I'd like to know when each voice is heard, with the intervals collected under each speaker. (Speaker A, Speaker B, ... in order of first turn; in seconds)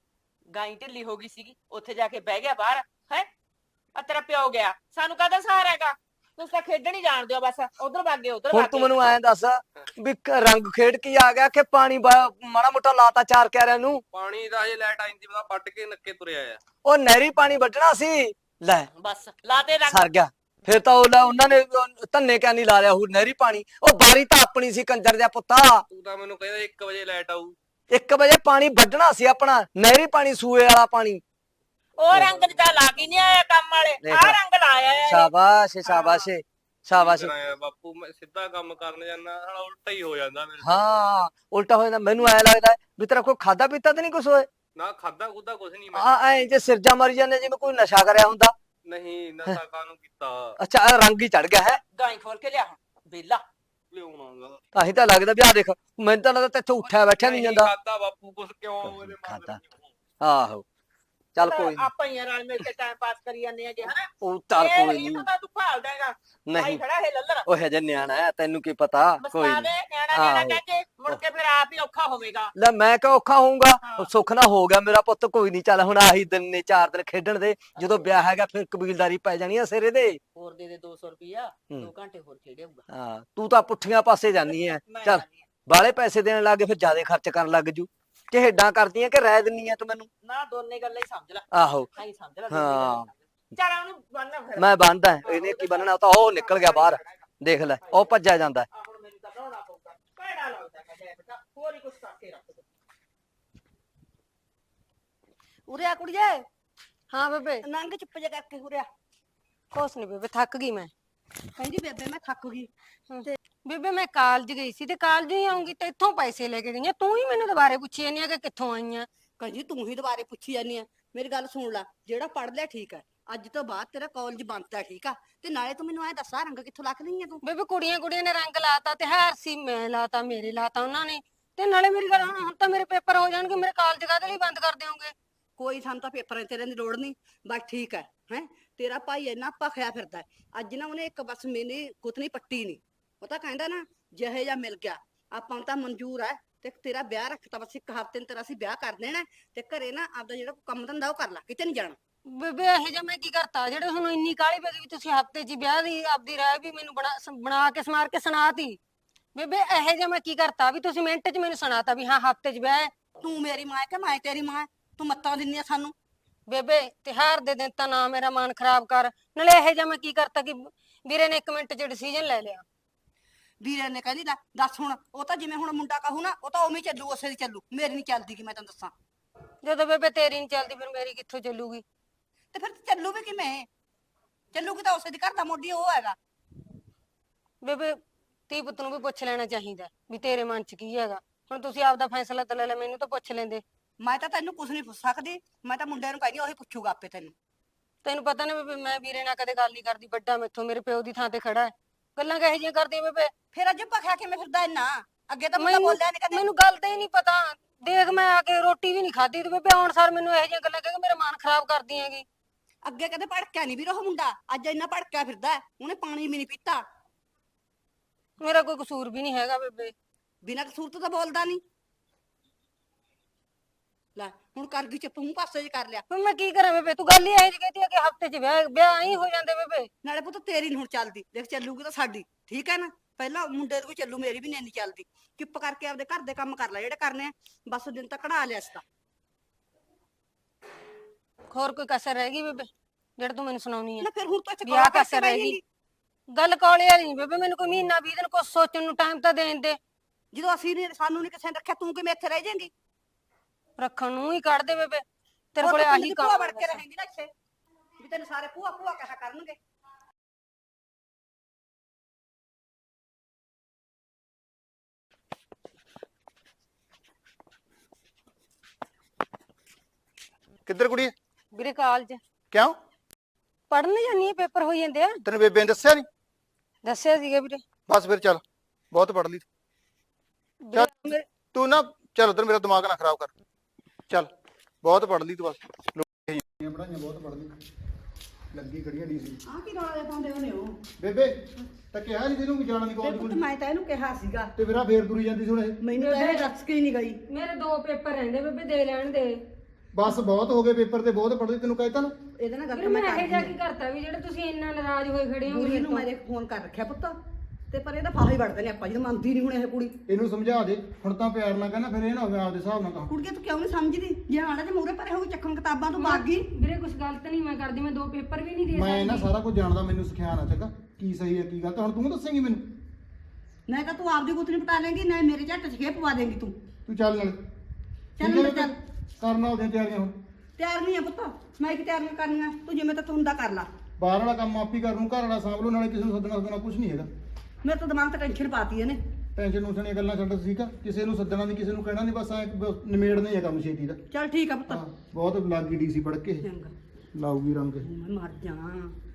Speaker A: 0.5-3.3, 4.0-8.9, 19.0-20.1, 32.0-35.3, 35.9-36.2, 51.9-53.4, 61.4-67.5, 69.2-72.5, 73.8-74.1, 80.3-82.8, 84.4-85.5, 90.2-97.3, 97.8-98.2, 98.7-102.7
Speaker B: 8.5-14.0, 16.8-18.9, 19.9-25.8, 27.9-31.2, 34.0-34.4, 35.1-37.3, 40.6-44.5, 45.9-48.5, 50.6-51.8, 54.8-57.7, 58.8-59.6, 60.2-60.6, 61.4-61.9, 64.2-65.3, 66.5-66.8, 67.5-71.2, 72.6-80.2, 82.9-90.1, 91.5-91.9, 92.5-93.1, 94.6-98.7
Speaker C: 14.1-16.6, 25.9-27.6, 32.3-33.0, 36.9-40.8, 44.8-46.2, 48.9-50.5, 53.9-54.6, 56.8-60.0
Speaker D: 105.7-106.5, 107.6-108.9, 111.6-112.7, 119.4-127.4, 135.6-152.0, 163.2-165.9, 173.6-178.9, 182.5-183.7, 184.5-186.2, 194.0-197.3, 203.5-206.4, 212.8-216.8, 220.4-221.6, 224.2-226.0, 230.0-238.8, 244.0-245.6, 250.3-252.7, 255.6-257.3, 258.0-259.6, 289.5-290.8, 293.0-294.5, 295.8-297.2, 302.4-303.5, 305.4-307.2, 307.7-309.9, 313.1-316.5, 323.7-326.6, 328.2-328.8, 330.6-333.7, 337.6-339.0, 344.1-344.8, 346.4-346.7, 347.8-348.9
Speaker E: 107.1-107.7, 109.7-110.9, 113.1-119.1, 127.4-135.1, 152.3-158.8, 159.3-162.9, 166.5-172.7, 179.6-181.8, 187.6-188.0, 188.5-193.6, 198.0-203.3, 205.6-212.3, 218.4-219.9, 226.1-229.9, 241.5-244.1, 244.7-245.6, 246.3-249.8, 253.8-256.8, 271.5-272.2, 273.7-275.2, 276.8-277.6, 280.6-281.2, 296.0-296.5, 297.3-299.4, 302.7-306.1, 316.0-319.3
Speaker F: 270.7-271.1, 275.2-276.1, 277.9-279.4, 281.5-283.3, 284.8-287.5, 288.5-289.4, 291.0-291.4, 291.9-293.4, 294.6-295.8, 299.9-302.1, 310.1-313.1, 318.7-322.6, 326.9-327.4, 328.2-330.1, 334.0-337.1, 339.4-344.0, 344.7-346.5, 347.1-347.9